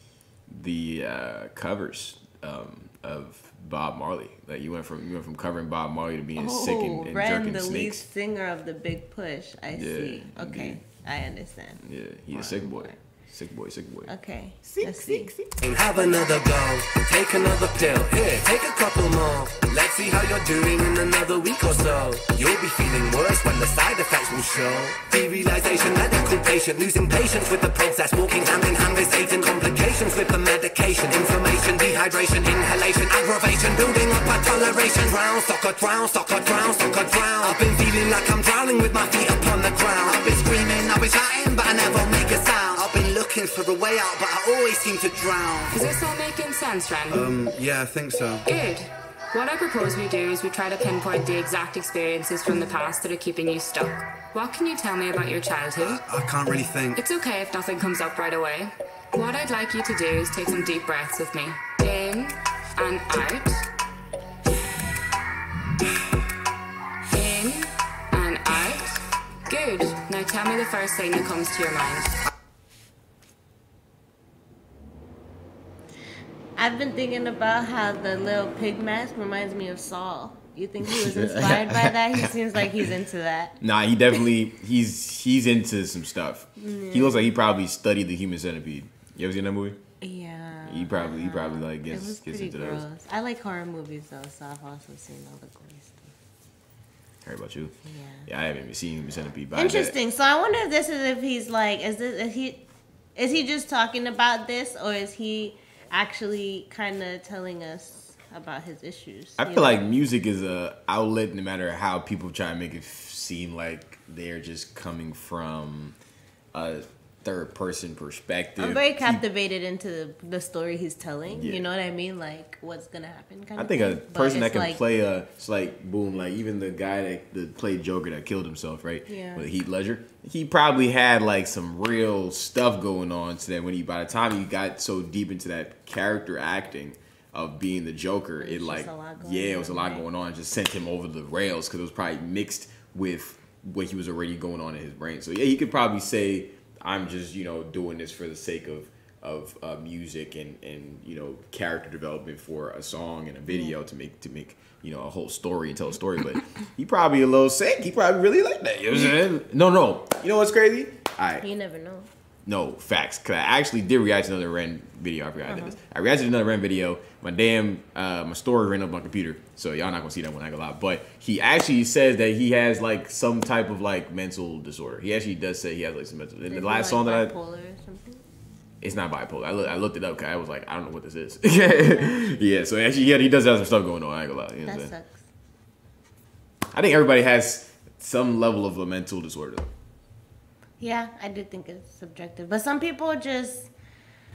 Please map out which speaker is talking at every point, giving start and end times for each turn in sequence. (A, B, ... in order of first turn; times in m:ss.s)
0:00.5-0:08.0 A
0:06.4-0:11.8 B
0:09.7-0:10.8 A
0:11.8-0:14.1 A
0:12.4-0:13.0 B
0:14.1-0:15.3 B
0:14.6-0:15.5 A
0:15.6-0:45.8 C
0:45.7-0:47.4 D
0:47.1-0:48.4 C
0:48.5-0:56.0 D
0:55.8-0:57.0 C
0:57.0-1:03.7 D
1:07.1-1:12.2 D
1:16.6-1:23.6 B
1:20.8-1:22.3 A
1:23.6-1:29.8 A
1:26.6-1:27.3 B
1:30.0-1:36.1 B
1:30.7-1:32.8 A
1:37.2-1:37.8 A
1:37.9-1:38.3 B
1:38.3-1:40.0 A
1:39.5-1:42.6 B
1:43.2-1:49.9 B
1:49.4-1:56.0 A
1:56.5-1:59.2 A
1:58.6-2:04.8 B
2:01.3-2:01.6 A
2:03.6-2:41.5 A
2:09.1-2:09.5 B
2:18.4-2:20.1 B
2:41.4-2:42.1 B
2:42.5-2:57.4 A
2:45.5-2:45.8 B
2:56.5-2:58.2 B
2:58.8-3:04.9 A
3:01.7-3:02.2 B
3:04.6-3:05.2 B
3:06.7-3:09.7 A
3:10.8-3:13.7 B